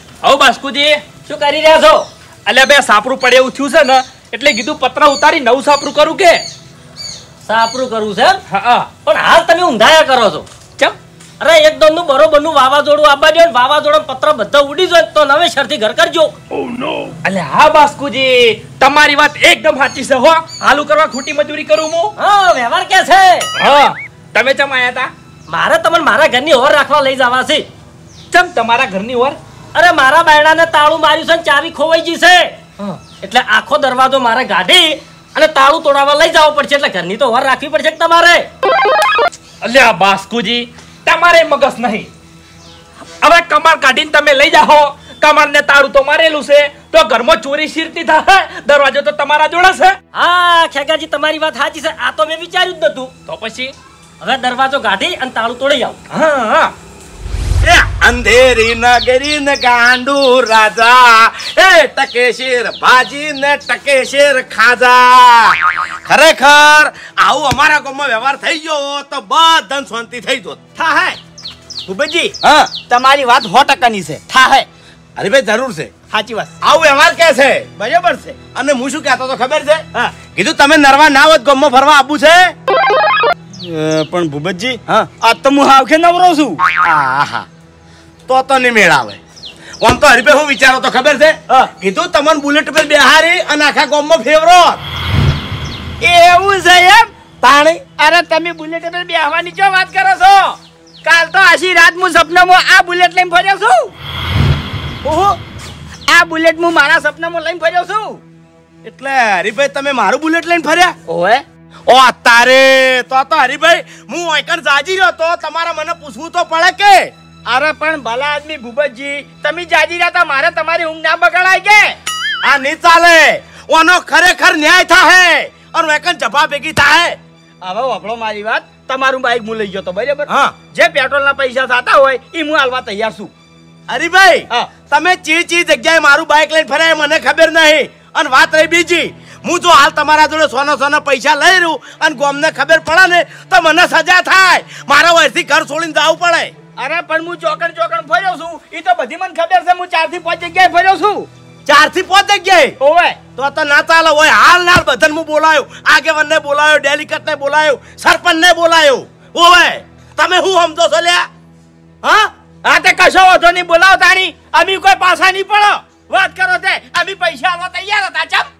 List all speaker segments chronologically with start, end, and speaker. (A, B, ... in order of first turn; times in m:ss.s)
0:00.2-0:01.0 A
0:01.2-0:02.1 B
0:02.4-0:06.4 A
0:07.4-0:08.4 B
0:08.5-0:08.9 A
0:09.0-0:10.5 B
0:11.4-0:16.4 B
0:17.2-0:22.1 A
0:22.2-0:23.5 B
0:23.6-0:25.1 A
0:25.5-0:27.6 B
0:28.3-0:29.4 A
0:29.7-0:32.5 B
0:33.1-0:38.5 B
0:39.6-0:42.1 A
0:43.2-0:50.0 A
0:50.1-0:53.1 B
0:53.3-0:53.7 A
0:54.2-0:56.0 B
0:56.1-0:56.7 A
0:57.6-1:10.6 C
1:10.8-1:11.2 D
1:11.8-1:14.7 D
1:15.2-1:15.9 C
1:16.1-1:16.6 D
1:16.6-1:22.5 C
1:17.9-1:18.3 D
1:23.6-1:26.6 D
1:26.7-1:27.4 C
1:28.3-1:29.2 C
1:29.8-1:34.8 C
1:36.0-1:37.1 D
1:37.4-1:37.9 C
1:37.9-1:40.0 D
1:39.5-1:40.4 C
1:41.0-1:43.9 D
1:45.0-1:45.4 D
1:46.1-1:48.2 D
1:48.8-1:50.9 C
1:51.1-1:51.4 D
1:51.9-1:57.1 C
1:57.5-2:02.0 D
2:02.4-2:07.2 C
2:07.6-2:13.3 D
2:10.3-2:10.5 C
2:13.9-2:26.5 C
2:26.8-2:31.3 D
2:31.6-2:32.8 C
2:32.8-2:33.2 D
2:33.4-2:41.3 C
2:42.0-2:48.5 D